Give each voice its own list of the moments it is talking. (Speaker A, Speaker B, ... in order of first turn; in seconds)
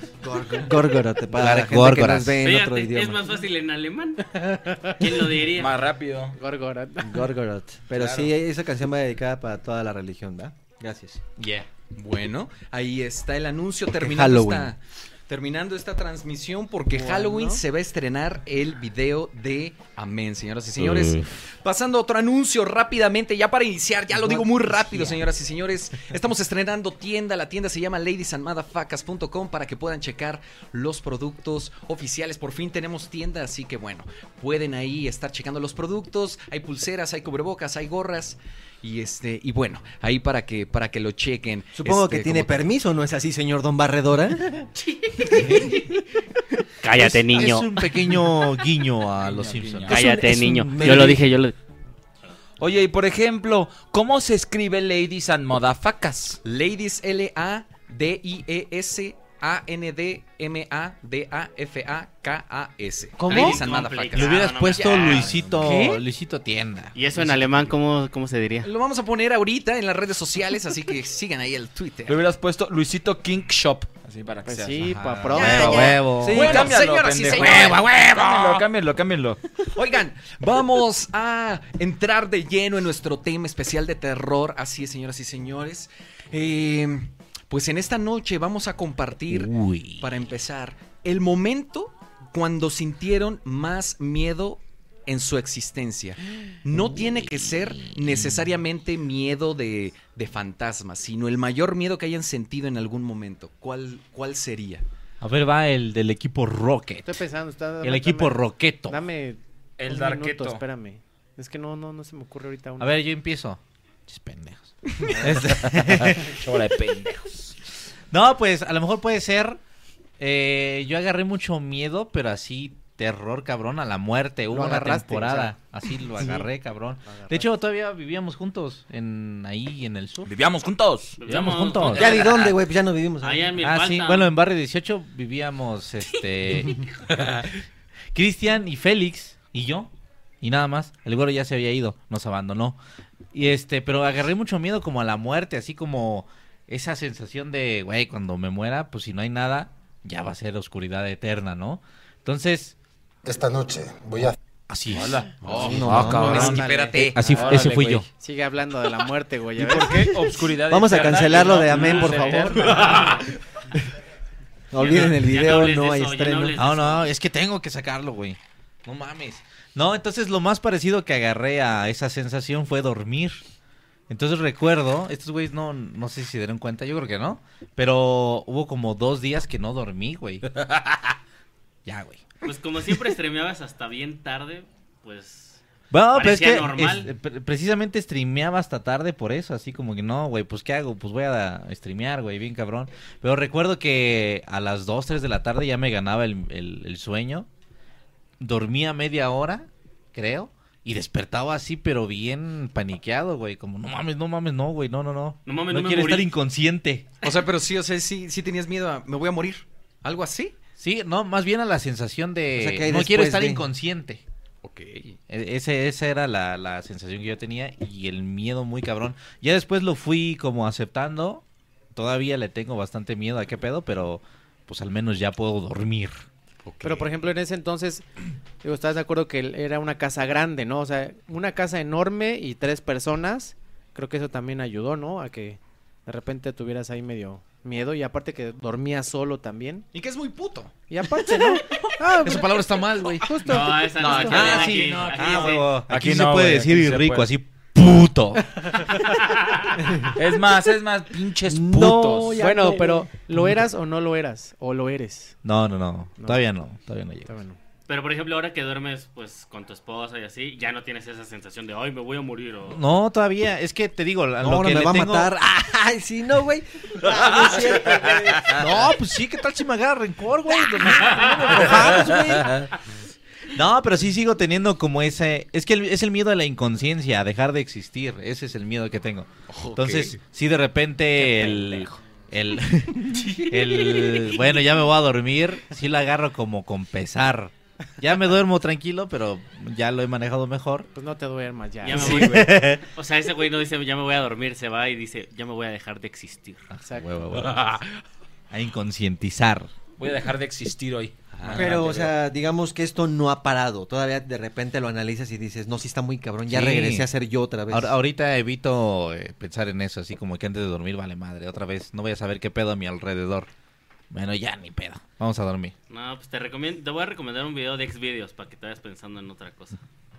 Speaker A: 0.2-3.2, 7.0-11.2, 14.0-14.7, 24.1-24.4, 41.8-44.7, 49.9-51.2, 115.6-116.0, 131.9-133.6, 155.6-156.6, 160.0-163.1, 164.7-166.6, 212.6-213.7, 249.8-250.1, 251.6-252.9, 264.4-268.7, 301.5-307.9
Speaker B: 1.3-2.4, 46.9-50.1, 64.1-67.7, 75.0-76.6, 89.3-90.2, 96.7-98.5, 105.2-107.2, 107.8-109.0, 112.8-116.3, 118.1-119.6, 120.2-130.3, 131.3-132.2, 133.6-136.8, 138.1-139.9, 140.4-142.8, 143.3-152.7, 154.7-158.1, 166.6-173.4, 174.1-180.4, 181.8-182.3, 185.9-197.5, 198.4-207.1, 210.8-214.2, 215.3-221.4, 221.9-226.2, 242.2-243.3, 244.2-248.4, 253.3-253.6, 255.4-257.3, 262.7-265.3, 268.5-272.7, 273.5-290.9, 291.9-292.8, 296.7-297.6, 298.5-299.7, 306.5-307.1, 307.7-313.5, 314.1-315.7
Speaker C: 2.4-4.2, 5.0-5.8, 46.8-47.7, 49.9-51.5, 63.3-65.5, 67.0-68.6, 131.2-132.5, 133.2-134.3, 164.8-167.1, 182.4-185.6, 186.1-187.1, 205.4-206.3, 243.4-245.8, 257.9-262.8, 291.8-296.7, 315.9-319.8
Speaker D: 4.5-4.9, 6.3-7.2, 16.9-17.6, 65.6-66.0, 74.4-76.0, 107.0-112.9, 124.5-125.5, 127.0-127.4, 155.5-160.1, 162.1-162.5, 226.8-228.0, 228.6-239.8, 240.9-244.5, 252.3-255.3, 256.2-256.4, 257.2-257.6, 290.9-292.4
Speaker E: 5.5-6.3, 7.9-8.3, 49.2-50.0, 50.8-51.1, 52.6-56.4, 72.1-79.4, 109.8-110.6, 115.3-117.5, 130.2-132.5, 155.0-156.7, 157.4-158.0, 159.6-163.2, 244.8-247.3, 250.2-252.8, 300.0-302.0
Speaker F: 11.9-42.7, 56.4-65.4, 68.6-72.2, 75.4-78.0, 79.7-104.8, 155.4-157.2, 207.2-210.5, 214.6-215.2, 226.6-227.1, 239.9-240.7, 244.0-244.8, 279.5-280.2, 301.3-301.8